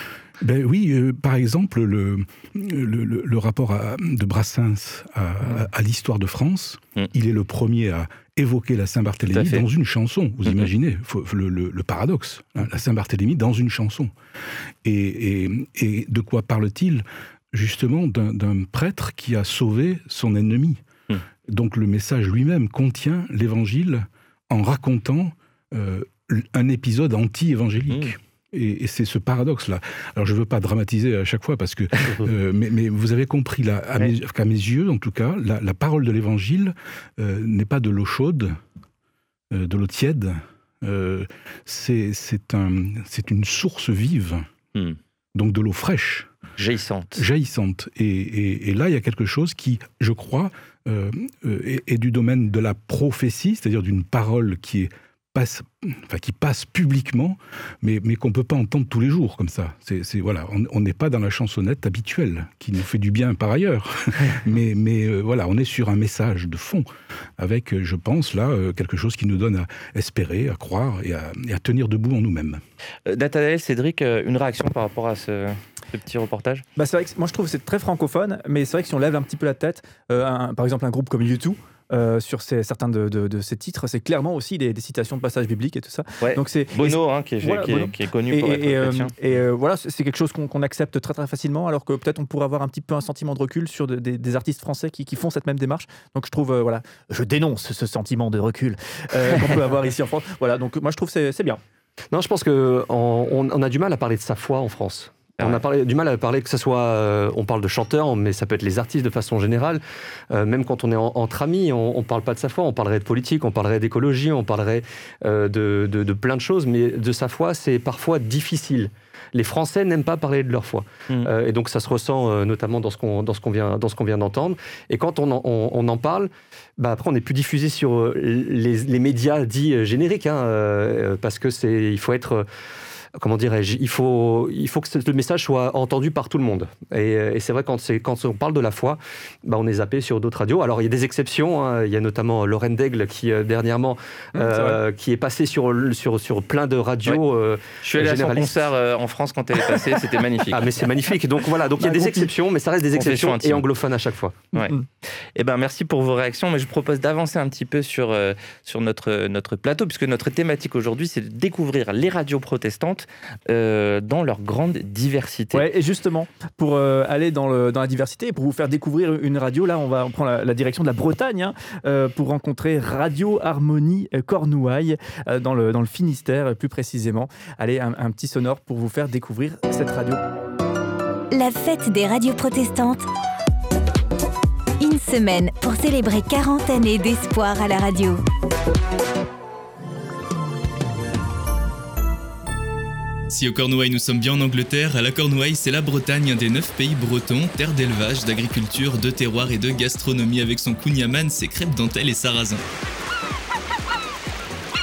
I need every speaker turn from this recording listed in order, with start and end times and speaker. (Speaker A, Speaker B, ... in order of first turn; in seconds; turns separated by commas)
Speaker A: 0.4-14.1, Speaker B: 9.3-9.6, Speaker A: 14.8-20.8, Speaker A: 21.5-38.5, Speaker A: 39.5-44.5, Speaker A: 45.3-46.3, Speaker B: 46.6-47.2, Speaker A: 47.1-72.6, Speaker B: 73.0-76.6, Speaker C: 76.8-101.6, Speaker B: 86.2-89.1, Speaker D: 102.1-132.4, Speaker D: 133.2-148.5, Speaker C: 144.3-144.8, Speaker B: 147.8-150.9, Speaker D: 150.5-154.5, Speaker C: 151.8-152.3, Speaker B: 152.9-153.6, Speaker C: 154.6-154.8, Speaker B: 155.3-165.7, Speaker C: 165.5-180.2, Speaker E: 181.3-183.0, Speaker E: 184.8-188.2, Speaker F: 193.3-202.6